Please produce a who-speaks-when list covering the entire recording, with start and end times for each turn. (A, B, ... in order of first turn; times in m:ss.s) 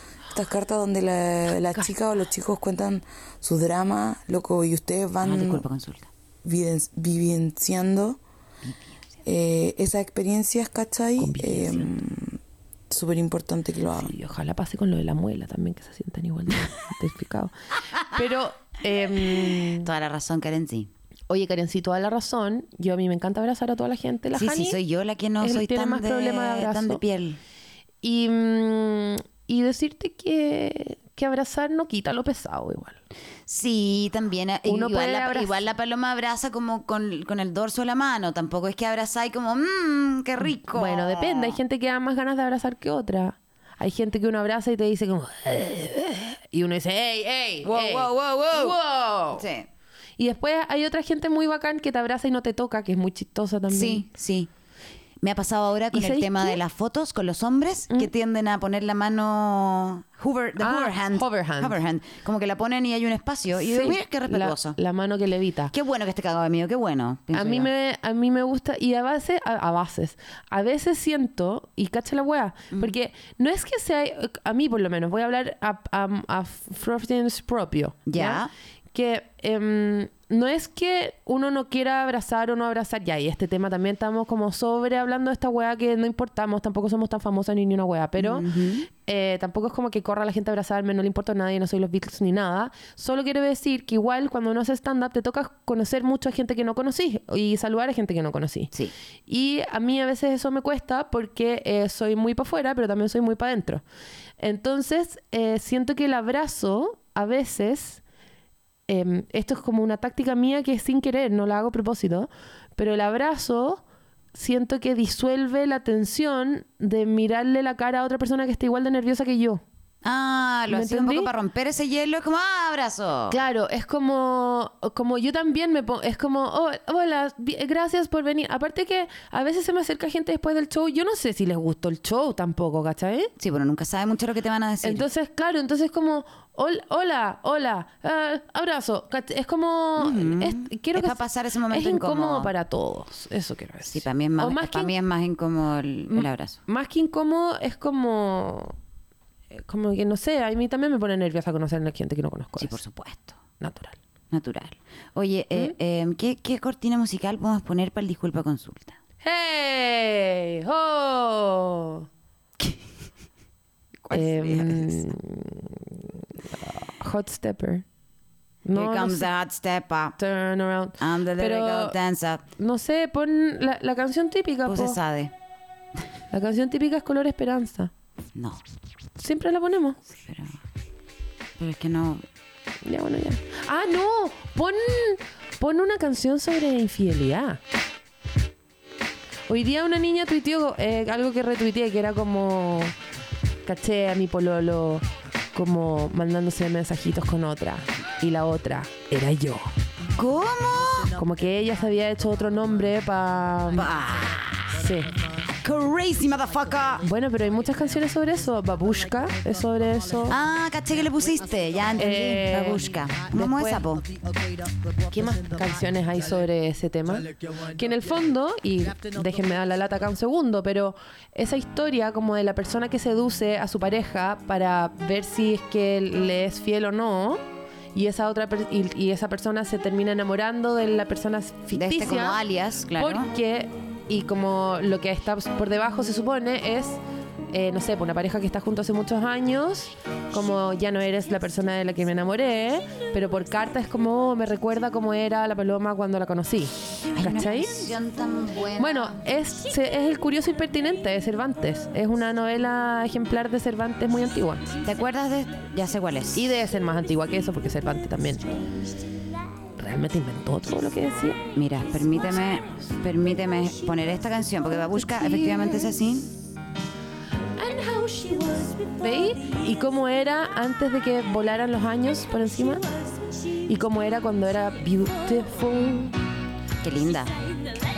0:00.3-0:05.6 A
0:05.2-0:06.1 B
0:06.4-0:08.2 A
0:08.6-0:09.0 B
0:09.2-0:12.4 A
0:11.2-0:11.9 C
0:12.9-0:14.2 A
0:13.9-0:19.9 C
0:19.2-0:20.9 B
0:21.3-0:24.8 C
0:24.3-0:27.4 B
0:25.4-0:27.0 C
0:28.0-0:33.0 C
0:33.5-0:41.6 B
0:34.7-0:35.6 C
0:40.7-0:49.4 C
0:47.6-0:48.8 B
0:49.3-0:49.7 B
0:50.2-0:54.1 C
0:53.7-0:54.5 B
0:55.2-1:04.8 B
0:55.9-0:56.6 C
1:00.6-1:01.8 C
1:03.6-1:05.7 C
1:05.7-1:07.7 B
1:07.3-1:38.7 C
1:18.1-1:18.5 B
1:28.2-1:28.9 B
1:39.3-1:43.8 C
1:44.4-1:48.0 C
1:48.9-1:53.8 C
1:54.3-1:59.6 C
2:00.0-2:03.4 B
2:00.7-2:01.3 C
2:03.3-2:13.3 C
2:13.4-2:15.1 B
2:14.8-2:24.9 C
2:20.0-2:22.5 B
2:23.8-2:26.6 B
2:26.1-2:28.8 C
2:29.5-2:32.8 C
2:32.6-2:33.4 B
2:33.6-2:34.0 C
2:34.3-2:39.0 B
2:39.2-2:42.1 C
2:42.6-2:42.8 B
2:44.0-2:45.1 B
2:44.1-2:47.8 C
2:48.6-2:49.3 C
2:48.7-2:50.2 B
2:50.2-2:52.0 C
2:51.0-2:52.4 B
2:52.6-2:55.0 C
2:54.7-2:55.3 B
2:56.3-2:57.9 C
2:58.4-2:58.6 B
2:59.2-3:00.0 C
3:00.1-3:00.6 B
3:01.6-3:02.2 B
3:02.8-3:07.6 C
3:09.5-3:12.9 C
3:13.6-3:19.7 C
3:20.2-3:21.1 B
3:21.2-3:23.9 C
3:23.7-3:24.8 B
3:24.7-3:25.1 C
3:25.6-3:27.1 B
3:27.0-3:30.4 C
3:30.3-3:34.1 B
3:32.0-3:33.8 C
3:35.1-3:47.4 C
3:47.9-3:52.4 C
3:51.7-3:53.3 B
3:53.0-3:57.0 C
3:57.5-4:07.8 C
4:07.1-4:09.2 B
4:08.8-4:14.7 C
4:14.8-4:16.5 B
4:16.4-4:18.6 C
4:19.8-4:21.5 C
4:21.5-4:26.4 B
4:25.0-4:25.9 C
4:27.6-4:32.9 C
4:33.6-4:36.2 C
4:36.8-4:37.4 B